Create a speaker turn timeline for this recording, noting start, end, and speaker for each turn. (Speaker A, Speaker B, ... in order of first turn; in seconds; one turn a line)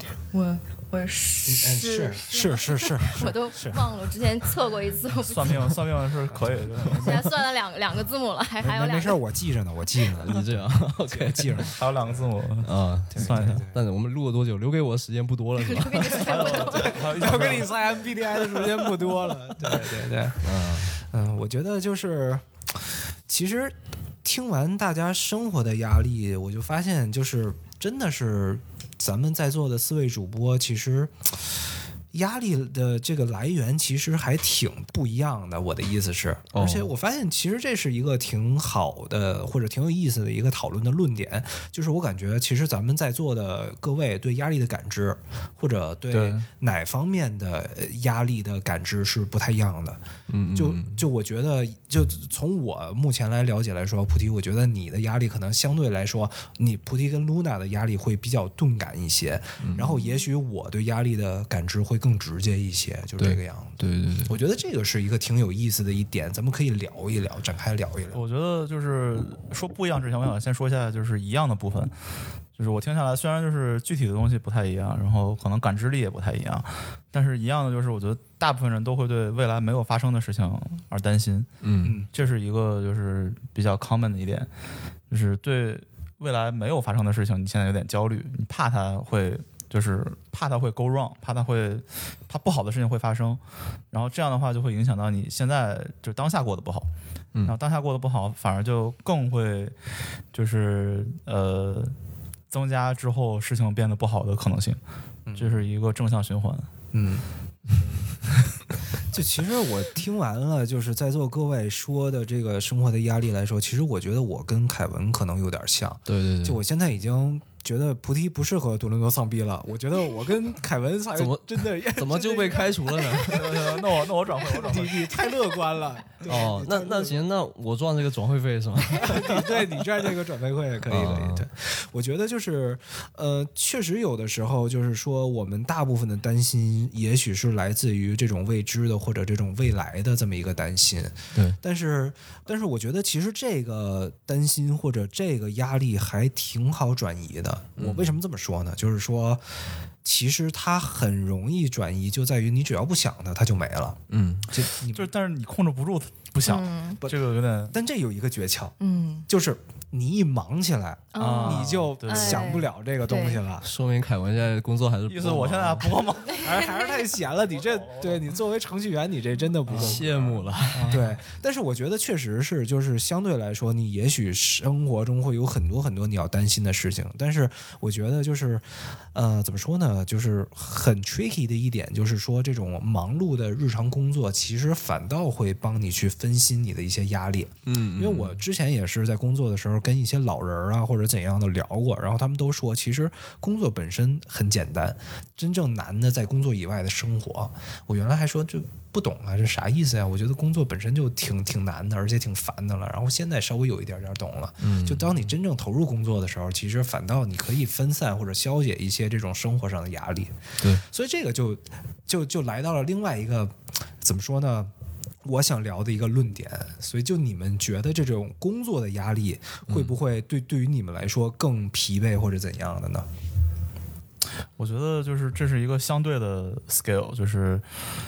Speaker A: 0.3-5.8
Speaker B: 1.5-3.8
Speaker C: 5.3-7.2
Speaker B: 6.4-7.3
Speaker A: 7.0-9.2
Speaker B: 8.6-11.8
Speaker D: 10.2-11.7
Speaker C: 11.8-13.7
Speaker D: 12.6-16.4
Speaker B: 13.1-13.8
Speaker A: 15.6-17.0
Speaker C: 16.1-17.9
Speaker B: 16.7-31.4
Speaker D: 20.4-21.0
Speaker B: 32.1-50.0
Speaker D: 36.5-36.9
Speaker C: 46.1-46.5
Speaker D: 50.3-51.0
Speaker B: 50.5-68.2
Speaker D: 59.6-60.0
Speaker D: 63.2-64.4
Speaker C: 68.1-71.9
Speaker C: 72.6-84.5
Speaker D: 81.6-82.0
Speaker C: 85.1-93.4
Speaker C: 93.9-96.9
Speaker C: 97.5-99.8
Speaker C: 100.3-102.0
Speaker C: 102.5-104.8
Speaker B: 105.3-105.6
Speaker C: 105.4-106.7
Speaker B: 106.9-107.2
Speaker B: 109.1-127.2
Speaker D: 116.1-116.6
Speaker D: 121.2-123.6
Speaker C: 123.3-125.1
Speaker D: 126.2-129.9
Speaker B: 129.0-149.4
Speaker D: 130.9-131.5
Speaker D: 147.8-148.2
Speaker B: 150.0-155.1
Speaker D: 154.1-154.5
Speaker C: 154.9-157.8
Speaker A: 156.4-157.0
Speaker B: 157.7-158.8
Speaker A: 158.8-159.3
Speaker B: 159.3-163.7
Speaker A: 161.1-163.4
Speaker C: 161.2-162.5
Speaker D: 163.6-166.0
Speaker C: 165.1-166.7
Speaker A: 166.3-166.9
Speaker B: 166.4-214.7
Speaker C: 167.5-168.3
Speaker C: 169.7-170.1
Speaker D: 169.7-171.0
Speaker C: 170.7-171.0
Speaker D: 187.7-188.4
Speaker D: 204.6-205.2
Speaker B: 215.2-223.1
Speaker D: 219.7-219.9
Speaker C: 224.6-227.6